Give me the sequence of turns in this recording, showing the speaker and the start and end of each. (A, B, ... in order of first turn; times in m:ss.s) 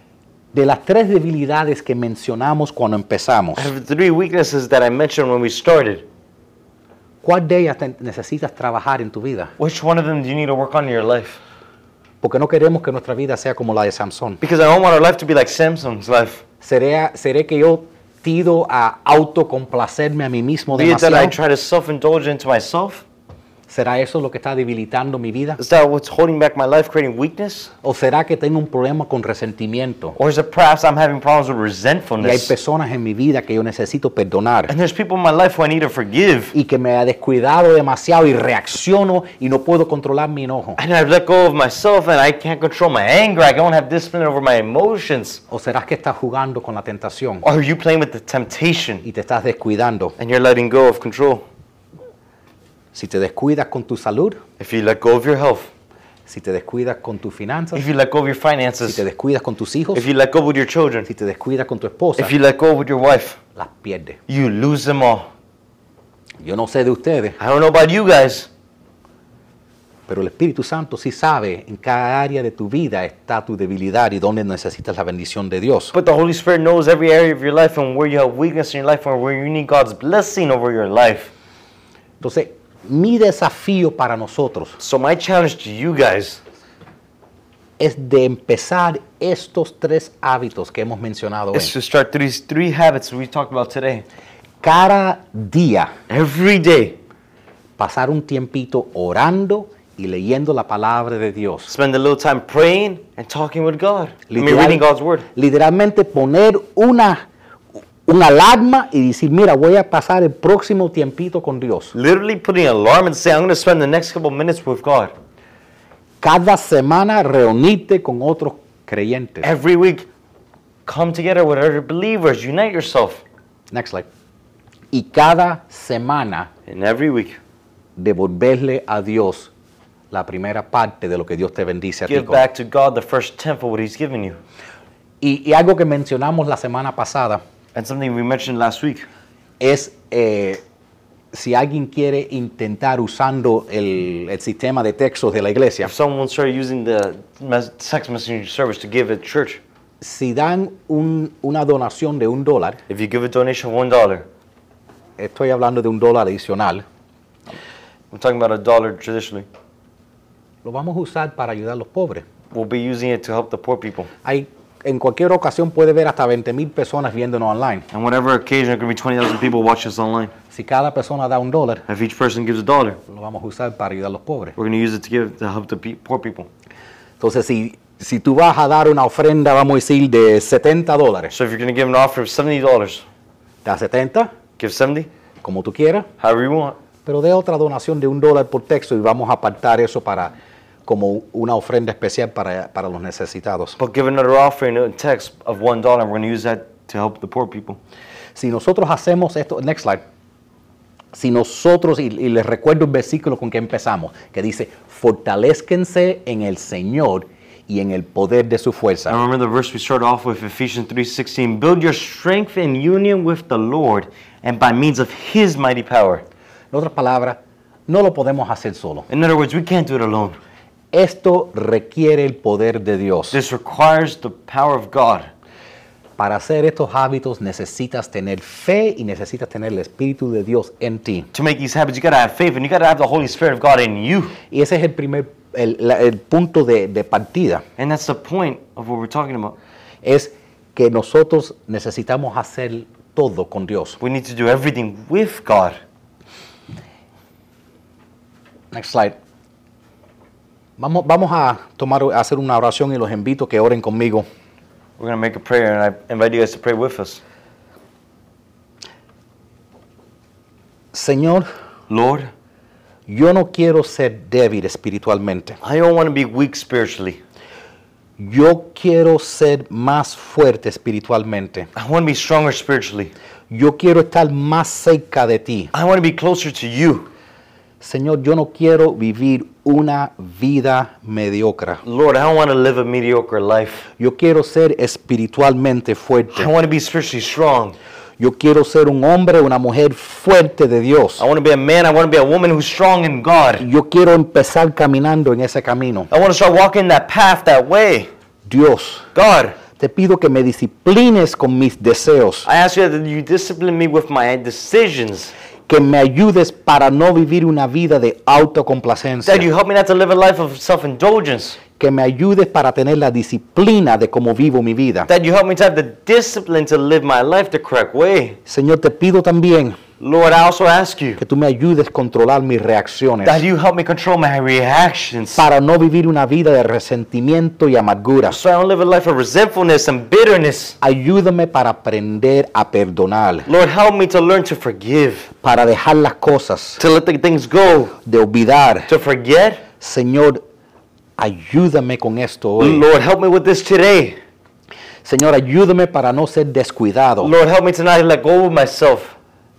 0:00.5-0:03.7 A
0:03.6-0:06.0 B
0:07.2-0:09.5 A
0:09.6-0:11.4 B
0:12.2-0:14.4 A
0:14.4-0:16.4 B
0:16.6-0:21.3 A
0:20.7-0:23.0 B
0:23.7-0:25.6 A
0:25.6-0:27.7 B
0:27.8-0:30.2 A
0:30.2-0:32.5 B
0:32.2-0:34.7 A
0:34.7-0:36.5 B
0:36.5-0:40.8 A
0:40.8-0:45.4 B
0:45.5-0:47.4 A
0:47.4-0:49.0 B
0:49.0-0:50.2 A
0:50.2-0:51.4 B
0:52.9-0:54.4 A
0:54.6-0:55.7 B
0:56.3-0:57.8 A
0:57.7-0:59.0 B
0:58.8-1:00.0 A
0:59.9-1:01.1 B
1:01.0-1:02.3 A
1:02.2-1:03.4 B
1:03.6-1:04.2 A
1:04.3-1:05.2 B
1:06.4-1:07.4 A
1:07.4-1:08.5 B
1:10.1-1:15.9 A
1:15.9-1:21.3 B
1:22.2-1:24.8 A
1:24.8-1:26.4 B
1:27.8-1:31.7 A
1:31.5-1:34.0 B
1:34.6-1:35.9 A
1:36.1-1:37.0 B
1:37.8-1:41.7 A
1:41.7-1:45.3 B
1:44.3-1:47.2 A
1:48.0-1:51.9 A
1:51.9-1:55.1 B
1:56.2-1:59.5 A
1:59.4-2:00.0 B
2:00.8-2:03.2 B
2:03.7-2:04.1 A
2:04.9-2:06.5 A
2:06.7-2:07.4 B
2:08.0-2:09.5 A
2:10.1-2:12.4 A
2:12.1-2:14.4 B
2:15.2-2:17.4 A
2:17.7-2:19.1 B
2:19.6-2:20.6 A
2:21.3-2:25.9 A
2:25.8-2:29.6 B
2:30.0-2:32.8 A
2:32.9-2:34.2 B
2:35.2-2:36.8 A
2:38.1-2:39.5 B
2:40.6-2:42.2 A
2:42.5-2:44.1 B
2:44.2-2:47.8 A
2:47.9-2:50.3 B
2:50.5-2:51.8 A
2:51.9-2:53.0 B
2:53.1-2:54.6 A
2:54.6-2:56.5 B
2:57.2-3:01.3 A
3:01.3-3:03.0 B
3:03.6-3:04.3 A
3:04.6-3:05.1 B
3:05.4-3:06.1 A
3:06.2-3:06.8 B
3:07.0-3:10.3 A
3:10.8-3:13.8 A
3:13.8-3:17.8 B
3:18.4-3:20.0 A
3:21.1-3:29.2 A
3:29.1-3:36.2 B
3:36.7-3:39.0 A
3:39.1-3:40.4 B
3:40.9-3:43.4 A
3:43.3-3:45.3 B
3:46.2-3:51.3 A
3:51.3-3:54.3 B
3:54.5-3:57.6 A
3:57.8-3:59.6 B
4:00.0-4:04.0 A
4:04.0-4:05.8 B
4:08.7-4:09.2 A
4:10.8-4:14.2 A
4:15.0-4:17.2 B
4:20.9-4:21.5 A
4:21.9-4:22.3 B
4:23.1-4:25.6 A
4:25.6-4:27.2 B
4:28.2-4:31.7 A
4:31.7-4:33.1 B
4:33.5-4:35.7 A
4:35.7-4:37.1 B
4:37.8-4:41.8 A
4:41.8-4:43.8 B
4:44.0-4:46.5 A
4:46.3-4:47.8 B
4:48.2-4:51.2 A
4:51.2-4:53.6 B
4:53.6-4:56.1 A
4:56.1-4:58.1 B
4:58.4-4:59.1 A
4:59.1-4:59.6 B
4:59.8-5:02.5 A
5:02.4-5:05.3 B
5:05.7-5:09.4 A
5:09.2-5:11.6 B
5:11.8-5:15.1 A
5:15.1-5:18.4 B
5:18.4-5:19.8 A
5:20.0-5:21.2 B
5:21.2-5:23.4 A
5:23.2-5:25.4 B
5:25.4-5:28.4 A
5:28.3-5:30.8 B
5:30.8-5:33.5 A
5:33.5-5:35.3 B
5:35.4-5:36.8 A
5:36.8-5:38.0 B
5:38.0-5:38.9 A
5:38.9-5:39.6 B
5:39.8-5:40.4 A
5:41.2-5:42.8 A
5:42.6-5:44.2 B
5:45.0-5:47.3 A
5:47.2-5:49.1 B